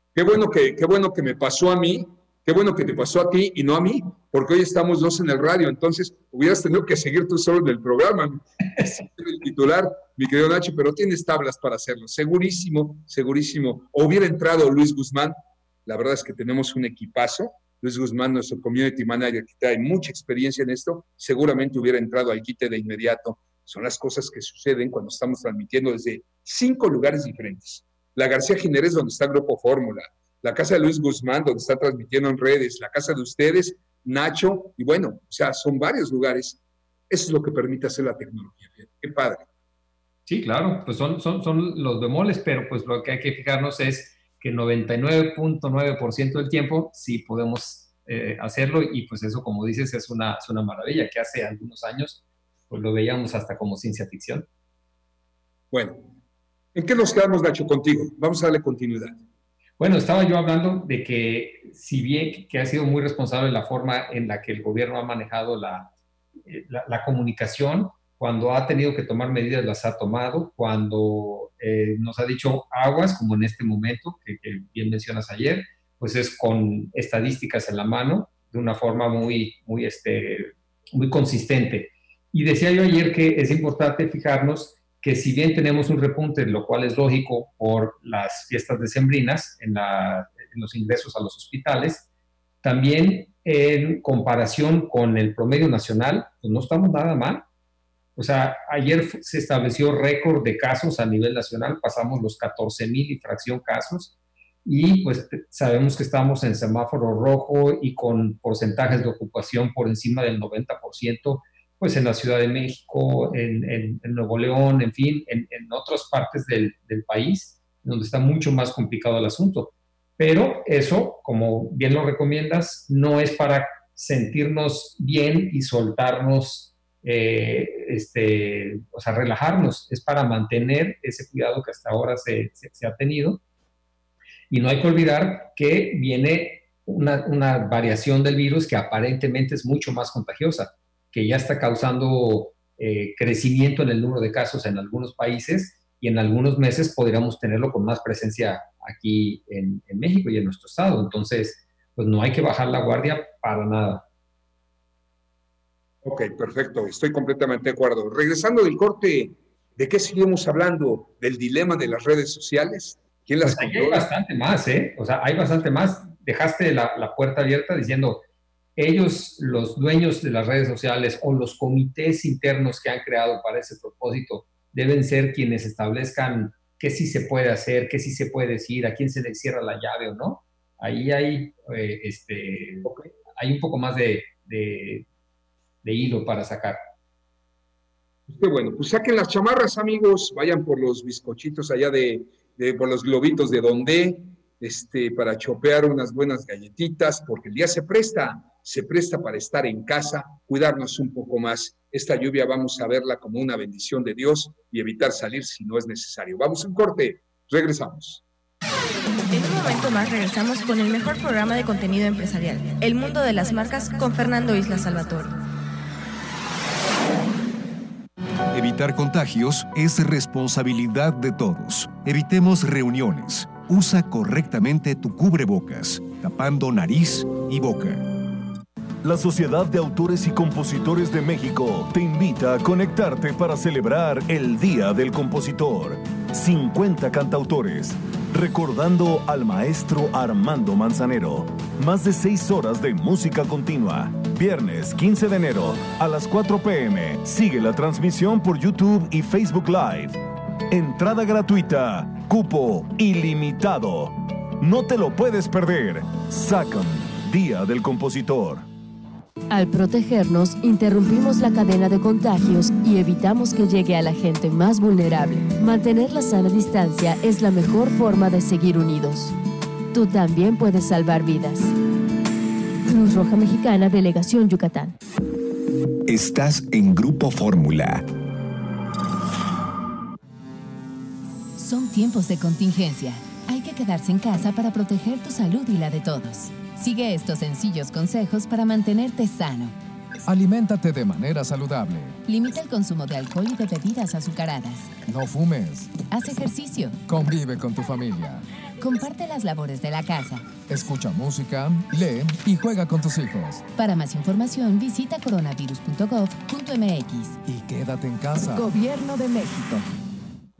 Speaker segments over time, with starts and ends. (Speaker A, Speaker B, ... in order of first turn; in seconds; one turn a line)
Speaker A: 0.1-39.5
Speaker B: 40.3-54.5
Speaker A: 55.7-56.1
Speaker A: 56.8-59.2
Speaker B: 59.8-65.9
Speaker B: 66.5-92.1
Speaker B: 92.6-97.5
Speaker B: 98.2-104.1
Speaker B: 104.7-133.4
Speaker B: 134.5-154.0
Speaker A: 156.0-164.1
Speaker B: 163.4-168.2
Speaker B: 168.8-185.1
Speaker B: 185.8-186.8
Speaker A: 188.3-208.2
Speaker C: 209.3-215.4
Speaker D: 218.5-228.1
Speaker E: 229.0-258.7
Speaker F: 259.5-269.3
Speaker F: 269.9-271.7
Speaker F: 272.9-274.9
Speaker D: 276.1-278.1
Speaker G: 281.6-289.8
Speaker H: 290.3-292.2
Speaker G: 292.3-294.9
Speaker H: 295.1-296.1
Speaker G: 296.1-297.0
Speaker H: 297.1-298.4
Speaker G: 298.8-300.5
Speaker H: 300.7-303.6
Speaker G: 303.8-307.4
Speaker H: 307.4-308.7
Speaker G: 308.6-309.8